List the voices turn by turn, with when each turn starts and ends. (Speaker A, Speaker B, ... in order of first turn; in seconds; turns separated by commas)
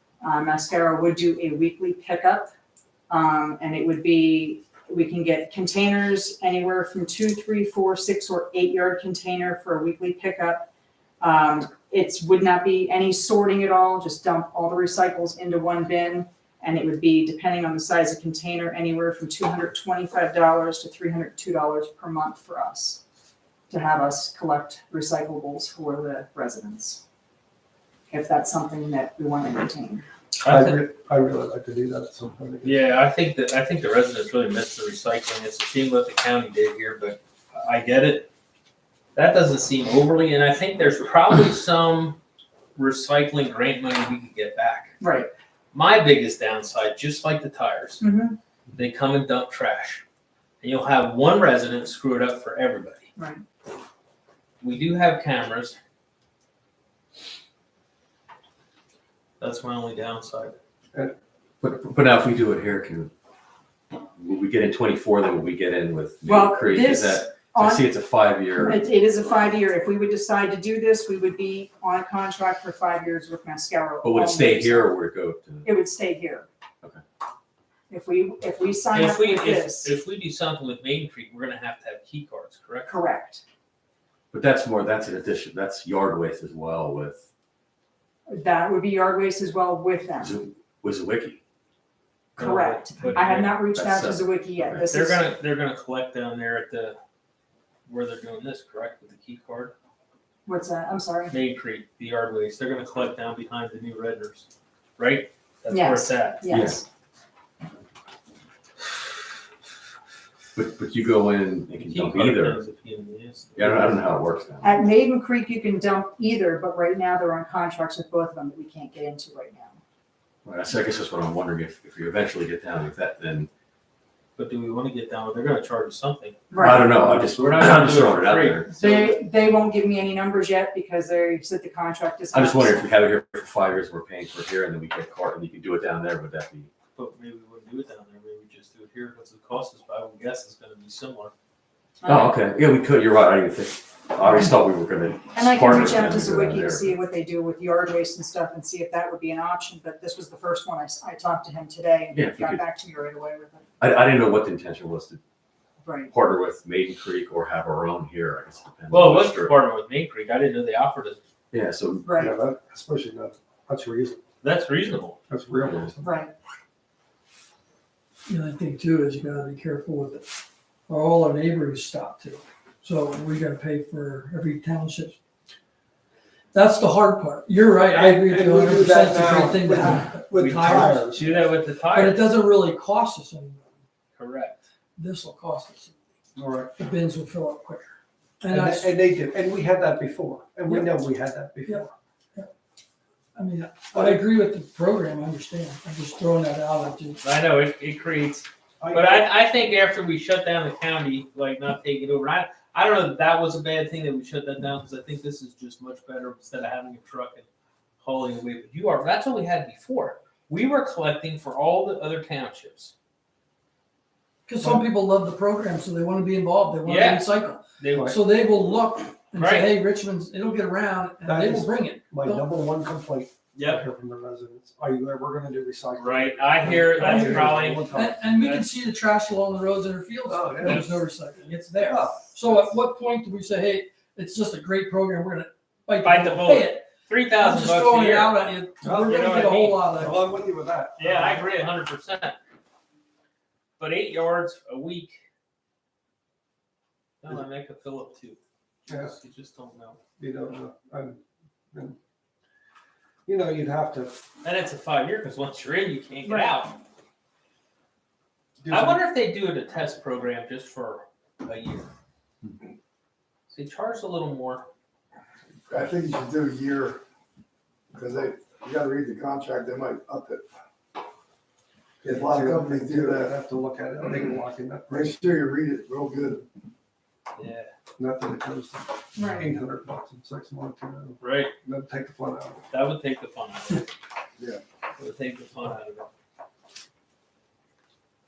Speaker A: 0.2-2.5, Speaker A: 3.1-10.7, Speaker A: 11.2-23.0, Speaker A: 23.7-27.0, Speaker A: 28.1-30.1, Speaker B: 30.4-30.8, Speaker C: 30.5-32.9, Speaker B: 32.6-38.3, Speaker B: 39.1-42.2, Speaker B: 42.8-45.0, Speaker A: 45.0-45.3, Speaker B: 45.7-48.0, Speaker A: 48.0-48.4, Speaker B: 48.8-50.0, Speaker B: 50.6-53.1, Speaker A: 53.2-53.4, Speaker B: 54.6-55.8, Speaker B: 59.4-60.6, Speaker D: 61.6-63.1, Speaker D: 64.2-68.8, Speaker A: 66.2-67.9, Speaker A: 68.5-75.0, Speaker D: 74.0-75.7, Speaker A: 75.6-76.5, Speaker A: 77.9-79.9, Speaker B: 78.9-83.0, Speaker A: 82.8-83.4, Speaker D: 84.3-87.3, Speaker A: 88.3-90.4, Speaker D: 90.2-91.4, Speaker B: 92.4-93.6, Speaker A: 92.4-95.2, Speaker D: 93.8-94.8, Speaker B: 94.9-97.0, Speaker B: 97.9-99.7, Speaker A: 100.5-101.3, Speaker B: 101.3-106.4, Speaker A: 105.7-106.9, Speaker D: 106.5-106.8, Speaker D: 110.6-112.6, Speaker B: 111.8-114.2, Speaker D: 113.6-114.8, Speaker A: 114.6-119.8, Speaker D: 120.5-123.5, Speaker B: 124.4-129.2, Speaker A: 126.5-126.9, Speaker D: 126.6-128.7, Speaker A: 128.7-132.9, Speaker D: 132.3-136.7, Speaker B: 136.9-141.3, Speaker A: 142.0-142.4, Speaker D: 142.1-146.9, Speaker A: 145.3-153.7, Speaker D: 152.1-152.6, Speaker D: 153.8-155.2, Speaker A: 155.8-156.1, Speaker D: 156.1-159.5, Speaker B: 158.9-161.2, Speaker D: 161.5-162.1, Speaker A: 162.0-162.3, Speaker C: 162.2-164.2, Speaker B: 164.4-165.2, Speaker C: 165.3-166.1, Speaker D: 165.6-165.9, Speaker A: 166.0-166.3, Speaker E: 168.3-170.3, Speaker E: 170.9-175.2, Speaker E: 176.5-183.7, Speaker C: 177.8-181.3, Speaker B: 180.4-182.3, Speaker B: 184.2-184.6, Speaker E: 185.0-186.0, Speaker C: 186.4-186.7, Speaker E: 186.8-189.0, Speaker C: 188.5-191.9, Speaker E: 190.7-190.9, Speaker E: 191.7-192.5, Speaker E: 193.3-197.2, Speaker C: 193.9-194.3, Speaker B: 197.2-207.5, Speaker C: 198.8-199.2, Speaker B: 208.0-212.9, Speaker E: 214.5-222.5, Speaker C: 214.6-214.9, Speaker B: 216.8-218.1, Speaker B: 219.4-219.8, Speaker C: 221.2-228.2, Speaker B: 223.5-223.9, Speaker B: 226.0-228.7, Speaker E: 226.8-240.4, Speaker C: 230.2-231.0, Speaker C: 231.8-232.7, Speaker B: 236.0-239.9, Speaker C: 238.8-241.2, Speaker B: 241.0-242.4, Speaker B: 243.8-245.2, Speaker B: 247.2-250.0, Speaker C: 248.9-249.1, Speaker C: 250.2-251.2, Speaker C: 253.3-254.2, Speaker B: 254.4-256.8, Speaker A: 256.3-256.5, Speaker C: 258.6-259.0, Speaker B: 258.7-261.9, Speaker B: 263.5-264.7, Speaker F: 265.7-267.0, Speaker F: 267.9-270.4, Speaker F: 272.0-273.4, Speaker C: 272.0-275.5, Speaker F: 274.9-276.4, Speaker B: 277.4-277.7, Speaker C: 278.0-282.6, Speaker A: 279.2-279.5, Speaker B: 281.2-281.5, Speaker B: 282.7-283.9, Speaker B: 285.0-286.1